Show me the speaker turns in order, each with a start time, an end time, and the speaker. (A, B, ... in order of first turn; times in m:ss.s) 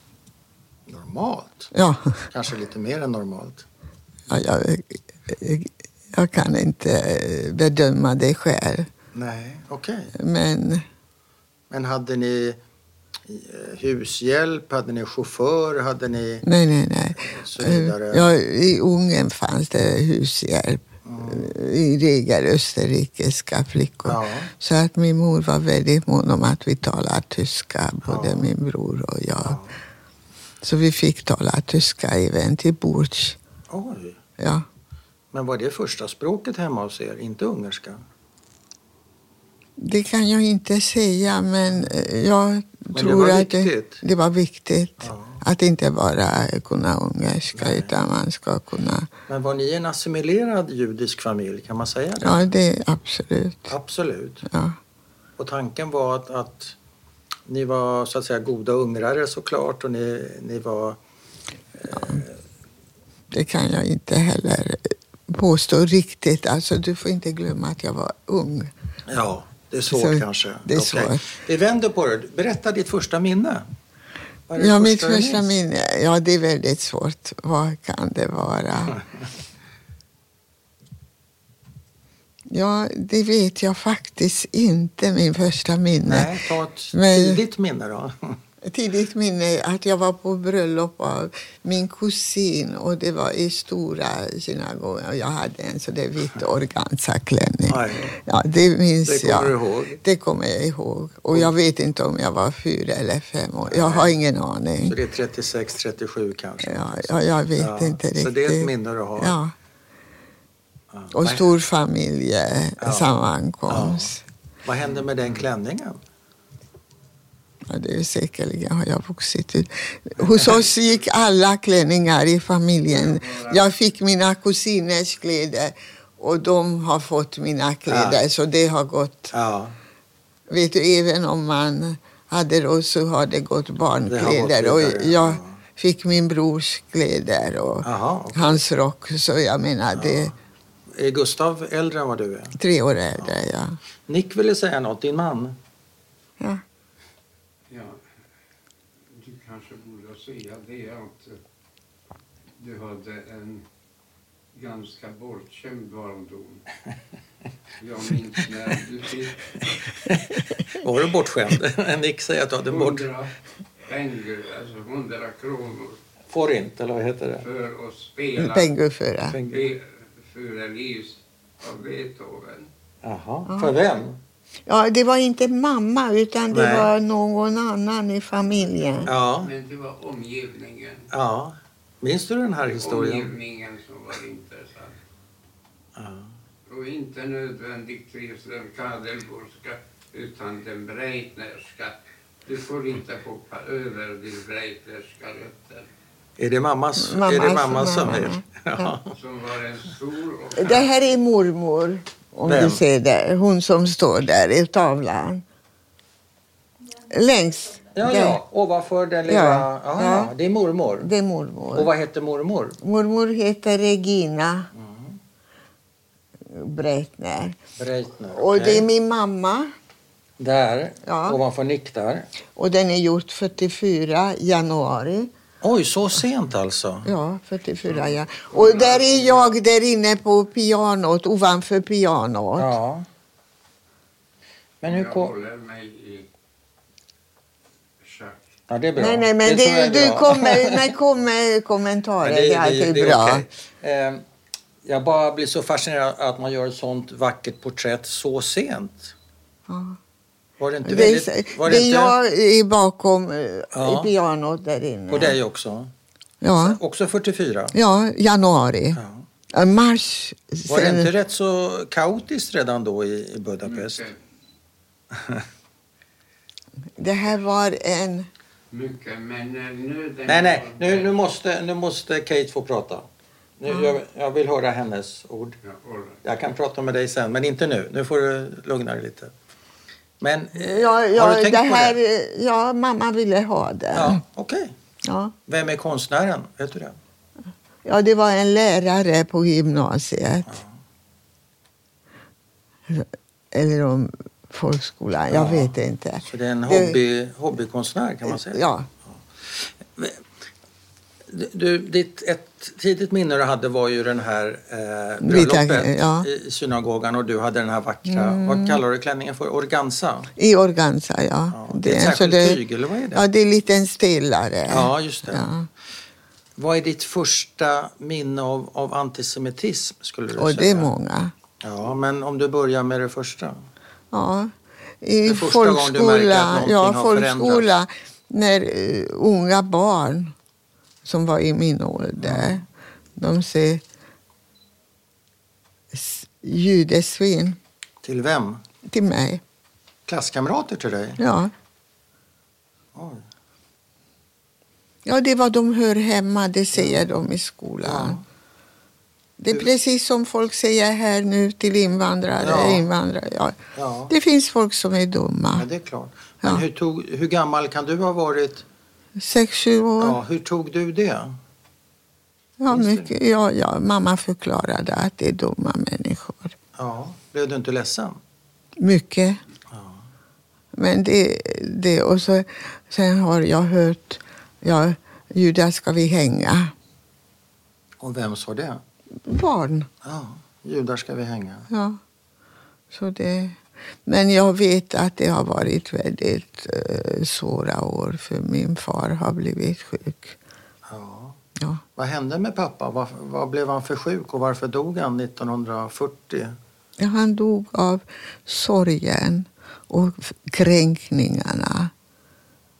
0:00.9-0:01.7 A
0:01.7-0:02.3 B
0:02.3-0:03.7 A
0:04.3-0:08.9 B
0:09.1-0:10.1 A
0:10.2-0:10.8 B
0:11.7-0:12.6 A
0:13.2-0:16.4 A
0:16.4-0:29.6 B
0:17.2-0:18.2 A
0:21.0-0:21.5 A
0:24.1-0:24.5 A
0:28.1-0:28.5 A
0:29.4-0:29.7 A
0:30.6-0:33.4 B
0:33.7-0:34.2 A
0:34.4-0:34.6 B
0:35.3-0:38.0 A
0:39.8-0:49.1 B
0:43.0-0:44.0 A
0:45.0-0:45.4 A
0:47.5-0:47.9 A
0:49.3-0:52.5 A
0:52.2-0:53.7 B
0:53.7-0:54.5 A
0:54.5-0:54.8 B
0:55.4-0:56.8 A
0:57.5-1:01.0 A
1:01.8-1:02.4 A
1:01.9-1:02.2 B
1:03.3-1:08.7 B
1:09.1-1:13.7 A
1:09.9-1:11.3 B
1:14.5-1:15.6 A
1:14.6-1:19.0 B
1:22.5-1:26.3 B
1:26.0-1:28.4 A
1:26.9-1:27.4 B
1:28.6-1:45.0 B
1:37.7-1:38.1 A
1:39.1-1:40.0 A
1:43.7-1:44.2 A
1:44.8-1:49.4 A
1:46.6-1:49.5 B
1:50.9-1:51.5 A
1:51.1-1:54.2 B
1:52.8-1:53.1 A
1:53.7-1:54.1 A
1:54.6-1:56.0 A
1:57.7-2:09.3 B
2:00.2-2:00.7 A
2:02.9-2:03.6 C
2:07.9-2:08.2 A
2:09.3-2:09.8 A
2:10.5-2:20.3 B
2:14.1-2:15.6 A
2:17.8-2:18.6 A
2:19.9-2:20.3 A
2:20.9-2:22.6 A
2:22.6-2:23.8 B
2:24.1-2:25.6 A
2:27.7-2:28.0 C
2:29.1-2:31.4 C
2:32.6-2:33.6 C
2:34.5-2:36.6 C
2:37.8-2:39.7 C
2:40.0-2:43.1 A
2:42.7-2:46.0 C
2:46.3-2:47.4 A
2:47.4-2:48.7 C
2:48.4-2:49.4 B
2:49.3-2:49.6 A
2:49.5-2:52.7 C
2:53.0-2:54.2 A
2:53.5-2:53.7 B
2:54.7-2:59.1 B
2:56.5-2:56.9 A
2:59.1-2:59.5 A
2:59.4-3:01.1 C
3:01.1-3:03.3 A
3:02.8-3:05.0 C
3:06.0-3:06.3 A
3:06.7-3:15.9 C
3:16.4-3:19.2 A
3:17.0-3:18.9 B
3:19.1-3:20.9 C
3:20.6-3:25.4 B
3:22.5-3:22.8 A
3:27.1-3:28.4 B
3:28.0-3:31.1 A
3:29.3-3:30.3 B
3:31.0-3:31.9 B
3:31.8-3:32.8 A
3:32.8-3:34.7 B
3:34.7-3:35.2 A
3:36.5-3:37.6 B
3:37.8-3:38.9 A
3:38.3-3:39.7 B
3:40.4-3:42.3 A
3:41.1-3:41.4 B
3:42.6-3:45.3 B
3:45.6-3:47.1 A
3:47.0-3:52.7 B
3:48.5-3:49.5 C
3:52.6-3:53.1 A
3:54.8-3:55.4 A
3:54.8-3:56.3 C
3:58.0-3:58.5 C
3:58.7-4:00.9 A
3:59.0-4:03.5 B
4:02.2-4:04.2 A
4:04.8-4:09.1 A
4:09.7-4:10.0 B
4:10.6-4:12.2 A
4:10.8-4:15.4 B
4:13.7-4:14.1 A
4:15.1-4:15.9 A
4:16.4-4:16.8 B
4:16.6-4:17.8 A
4:17.7-4:19.0 B
4:19.0-4:19.2 A
4:19.5-4:21.1 B
4:20.7-4:24.1 A
4:23.6-4:24.2 C
4:25.1-4:25.4 A
4:27.0-4:28.3 B
4:28.7-4:31.2 C
4:30.3-4:33.0 A
4:33.6-4:35.6 A
4:35.6-4:36.2 C
4:36.2-4:39.3 A
4:40.2-4:42.0 A
4:40.6-4:44.2 B
4:43.9-4:44.7 A
4:45.1-4:45.3 B
4:45.5-4:47.0 A
4:47.8-4:50.6 B
4:52.9-4:57.0 B
4:55.3-4:55.7 A
4:56.2-4:58.6 A
4:58.3-4:58.9 B
4:59.4-5:00.2 A
5:01.3-5:10.3 A
5:05.2-5:06.3 B
5:08.1-5:08.8 B
5:10.4-5:12.6 B
5:11.5-5:13.2 A
5:13.1-5:15.7 B
5:14.7-5:15.5 A
5:16.6-5:20.9 A
5:20.4-5:21.3 B
5:21.6-5:23.6 A
5:24.1-5:24.5 B
5:25.0-5:30.4 B
5:25.3-5:27.8 A
5:31.0-5:32.7 B
5:32.2-5:32.6 A
5:33.2-5:33.8 B
5:35.9-5:37.6 B
5:38.0-5:38.6 A
5:38.9-5:39.4 B
5:40.1-5:41.2 A
5:41.2-5:41.5 B
5:43.0-5:43.2 A
5:45.1-5:48.2 B
5:46.7-5:47.0 A
5:47.8-5:48.2 A
5:49.4-5:53.6 B
5:52.4-5:52.8 A
5:53.8-5:54.1 A
5:54.1-5:55.7 B
5:55.6-5:58.6 A
5:59.2-6:00.2 B
6:00.0-6:01.4 A
6:02.6-6:06.6 B
6:02.7-6:03.1 A
6:06.8-6:08.2 A
6:08.8-6:09.4 B
6:09.7-6:10.0 A
6:10.8-6:16.7 B
6:18.0-6:18.8 A
6:19.3-6:19.9 B
6:20.0-6:21.7 A
6:21.7-6:22.0 B
6:22.9-6:30.4 B
6:30.9-6:31.4 A
6:32.0-6:36.6 A
6:37.0-6:41.9 B